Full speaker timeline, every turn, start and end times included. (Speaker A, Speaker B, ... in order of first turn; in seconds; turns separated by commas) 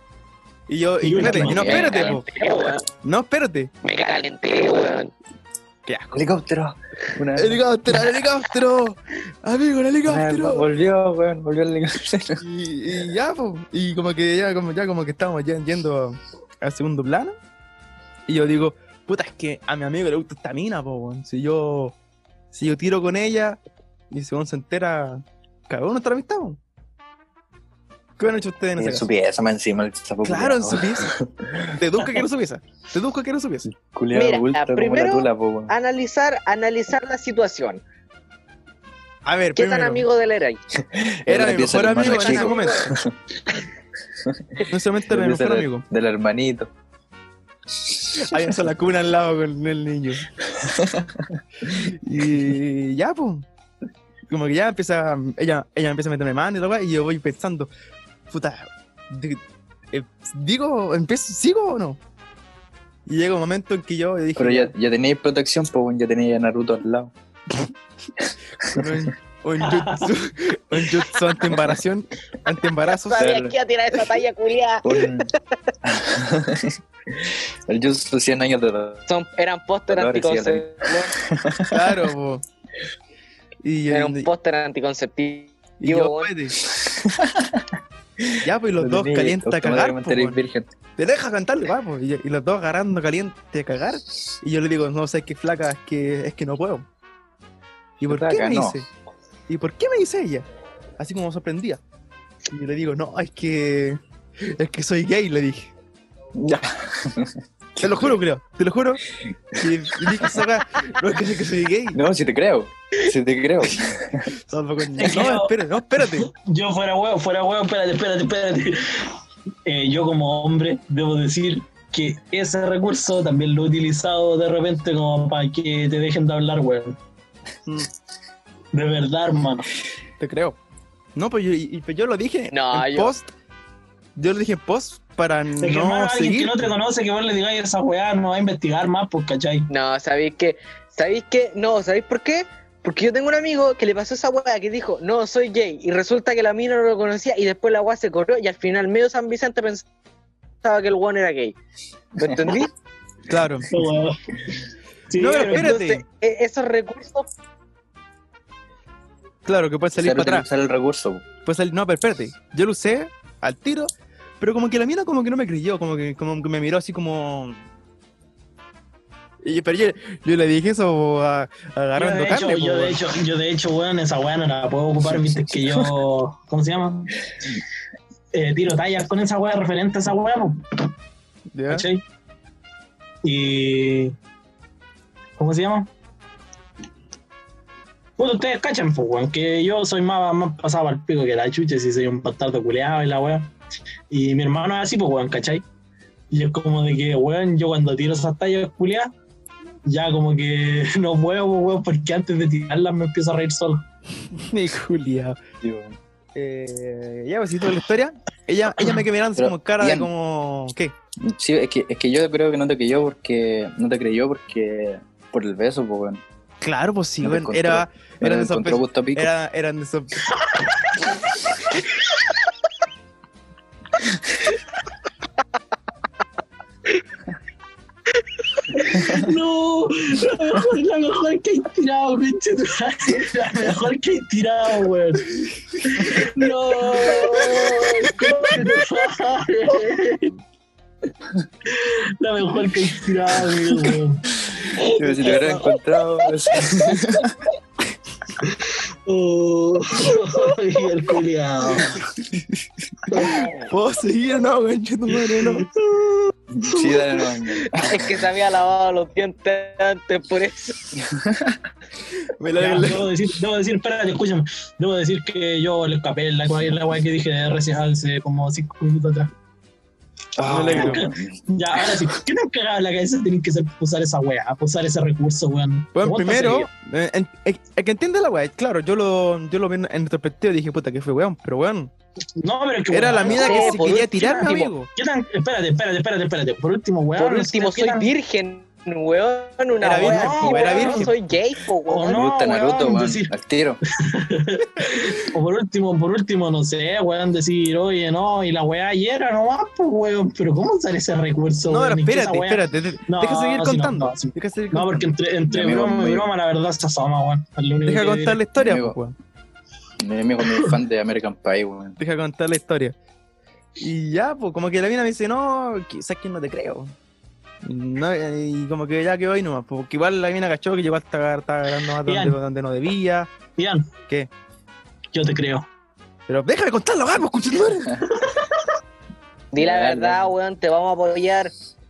Speaker A: 0.7-2.3, Speaker B: 1.0-1.9, Speaker C: 1.2-2.2, Speaker D: 1.7-2.8, Speaker B: 2.5-2.8, Speaker A: 3.0-3.7, Speaker D: 3.8-5.1, Speaker A: 5.9-6.2, Speaker C: 6.1-7.6, Speaker A: 7.3-10.7, Speaker C: 10.1-12.4, Speaker A: 12.4-17.4, Speaker A: 18.3-22.0, Speaker A: 22.5-23.6, Speaker A: 24.1-26.6, Speaker A: 28.2-29.1, Speaker C: 28.8-32.2, Speaker A: 30.2-31.1, Speaker A: 31.7-33.6, Speaker C: 33.7-35.7, Speaker D: 34.1-37.8, Speaker A: 39.2-40.0, Speaker D: 39.5-40.6, Speaker C: 40.9-43.1, Speaker A: 41.3-42.8, Speaker D: 42.0-42.9, Speaker A: 44.6-45.9, Speaker C: 45.1-46.7, Speaker C: 47.8-48.6, Speaker A: 48.2-50.3, Speaker C: 50.4-51.4, Speaker A: 51.7-53.5, Speaker A: 54.3-57.7, Speaker A: 58.3-62.0, Speaker A: 63.1-64.7, Speaker C: 64.4-67.1, Speaker C: 68.2-69.1, Speaker A: 68.7-73.2, Speaker B: 69.7-70.1, Speaker D: 72.9-75.2, Speaker C: 73.2-73.5, Speaker C: 74.8-75.3, Speaker C: 75.8-79.1, Speaker D: 79.1-81.1, Speaker C: 79.9-82.0, Speaker A: 81.7-82.4, Speaker A: 83.6-84.3, Speaker D: 83.9-86.3, Speaker A: 85.8-86.6, Speaker C: 86.7-90.7, Speaker A: 88.4-90.4, Speaker A: 91.0-96.9, Speaker A: 98.0-98.9, Speaker C: 98.0-98.8, Speaker A: 99.5-100.5, Speaker A: 101.0-101.8, Speaker A: 102.5-105.7, Speaker C: 106.4-108.2, Speaker A: 107.8-109.0, Speaker A: 109.6-112.0, Speaker C: 111.9-114.3, Speaker A: 114.5-116.3, Speaker B: 115.0-119.1, Speaker B: 119.7-127.0, Speaker B: 128.7-129.7, Speaker A: 130.2-130.6, Speaker A: 131.2-133.3, Speaker D: 132.5-133.1, Speaker A: 134.2-136.7, Speaker B: 135.6-139.7, Speaker D: 139.7-149.9, Speaker D: 150.6-151.6, Speaker C: 152.2-152.5, Speaker D: 152.2-152.7, Speaker A: 153.3-153.7, Speaker B: 153.7-155.8, Speaker A: 155.2-156.0, Speaker D: 155.5-157.3, Speaker A: 159.5-160.5, Speaker C: 160.0-161.2, Speaker A: 161.4-167.6, Speaker A: 169.4-173.0, Speaker B: 172.0-177.2, Speaker B: 178.3-180.9, Speaker A: 181.5-181.9, Speaker B: 181.7-182.0, Speaker B: 183.2-184.2, Speaker B: 185.4-185.9, Speaker B: 188.2-193.5, Speaker B: 194.1-195.7, Speaker B: 196.3-199.1, Speaker B: 199.8-203.8, Speaker A: 204.3-205.4, Speaker C: 205.6-206.0, Speaker A: 206.3-210.9, Speaker C: 209.4-210.1, Speaker C: 211.2-216.2, Speaker A: 216.6-220.3, Speaker C: 217.2-219.3, Speaker B: 228.6-240.3, Speaker A: 235.9-236.2, Speaker B: 241.7-247.0, Speaker C: 244.8-247.3, Speaker B: 248.4-252.0, Speaker A: 252.2-255.7, Speaker B: 253.1-253.4, Speaker B: 255.2-257.4, Speaker C: 256.5-258.2, Speaker D: 257.6-260.9, Speaker C: 261.1-261.6, Speaker A: 262.2-263.1, Speaker B: 262.6-269.3, Speaker C: 270.4-272.0, Speaker A: 270.5-271.1, Speaker B: 270.5-276.7, Speaker A: 275.9-281.9, Speaker B: 282.4-288.1, Speaker A: 282.9-284.9, Speaker D: 283.2-284.5, Speaker D: 287.2-292.2, Speaker A: 289.8-291.1, Speaker B: 290.0-291.1, Speaker B: 291.9-293.3, Speaker C: 292.1-293.8, Speaker B: 294.1-308.4, Speaker A: 301.7-306.2, Speaker C: 305.6-306.2, Speaker A: 307.9-309.1, Speaker C: 308.6-309.0, Speaker C: 310.0-312.0, Speaker A: 312.0-313.0, Speaker A: 313.8-316.9, Speaker A: 317.6-323.3, Speaker B: 322.1-322.4, Speaker B: 323.6-323.9, Speaker B: 325.1-325.7, Speaker A: 326.3-328.1, Speaker D: 329.5-331.5, Speaker C: 329.6-330.4